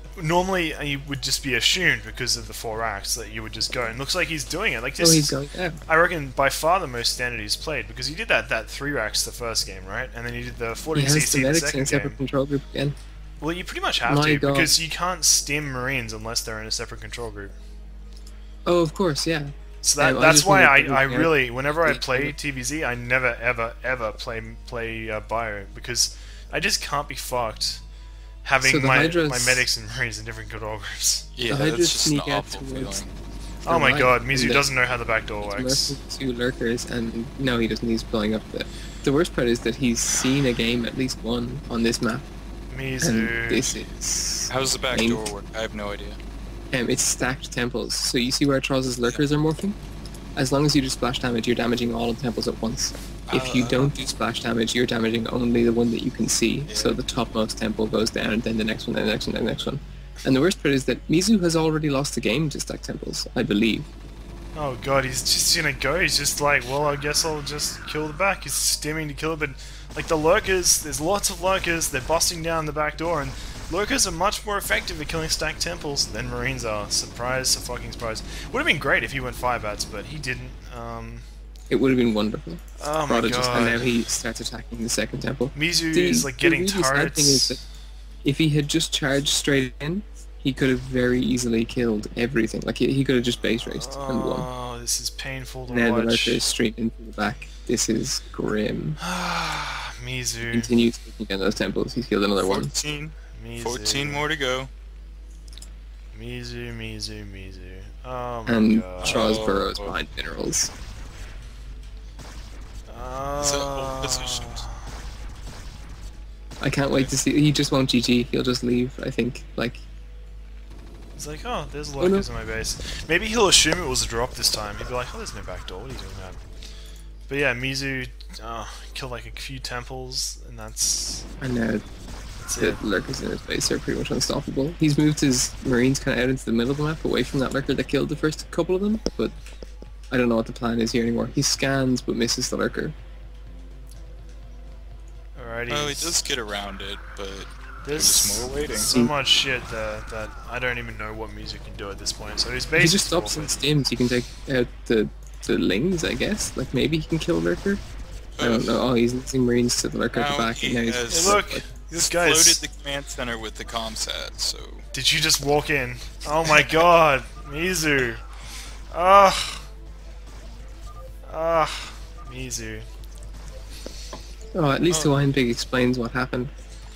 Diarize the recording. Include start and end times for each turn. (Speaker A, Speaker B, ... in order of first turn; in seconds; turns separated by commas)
Speaker A: 0.2-12.2, Speaker B: 5.0-5.8, Speaker B: 10.9-13.0, Speaker A: 13.4-17.6, Speaker B: 14.1-14.8, Speaker B: 18.7-22.4, Speaker A: 19.8-27.8, Speaker A: 28.4-31.3, Speaker B: 28.6-29.6, Speaker C: 31.4-33.1, Speaker B: 31.5-33.0, Speaker A: 33.6-36.0, Speaker B: 33.7-34.7, Speaker B: 35.4-42.3, Speaker A: 42.7-43.8, Speaker B: 43.0-45.3, Speaker C: 44.5-46.2, Speaker B: 46.7-49.8, Speaker B: 50.4-63.9, Speaker C: 53.3-53.9, Speaker C: 56.7-57.0, Speaker A: 64.5-81.2, Speaker B: 81.7-87.6, Speaker A: 82.8-83.9, Speaker A: 85.5-87.6, Speaker B: 88.2-94.5, Speaker A: 93.7-96.4, Speaker B: 95.7-99.0, Speaker A: 99.0-100.7, Speaker B: 100.5-102.7, Speaker C: 102.4-104.7, Speaker A: 103.3-104.2, Speaker A: 106.1-109.3, Speaker B: 108.5-110.7, Speaker C: 109.0-109.9, Speaker A: 112.9-115.0, Speaker C: 113.4-114.7, Speaker B: 116.6-119.8, Speaker A: 121.1-126.4, Speaker B: 122.0-122.3, Speaker A: 127.3-131.3, Speaker B: 131.4-131.8, Speaker A: 132.4-132.8, Speaker B: 132.6-139.3, Speaker B: 140.1-142.9, Speaker A: 145.4-146.2, Speaker C: 145.7-148.9, Speaker A: 147.8-153.6, Speaker B: 152.8-157.8, Speaker C: 158.4-158.9, Speaker B: 158.4-161.7, Speaker C: 160.1-161.4, Speaker A: 161.1-162.6, Speaker C: 161.9-164.8, Speaker A: 164.9-168.2, Speaker A: 168.9-169.7, Speaker A: 171.3-172.9, Speaker B: 174.5-176.5, Speaker C: 174.9-175.3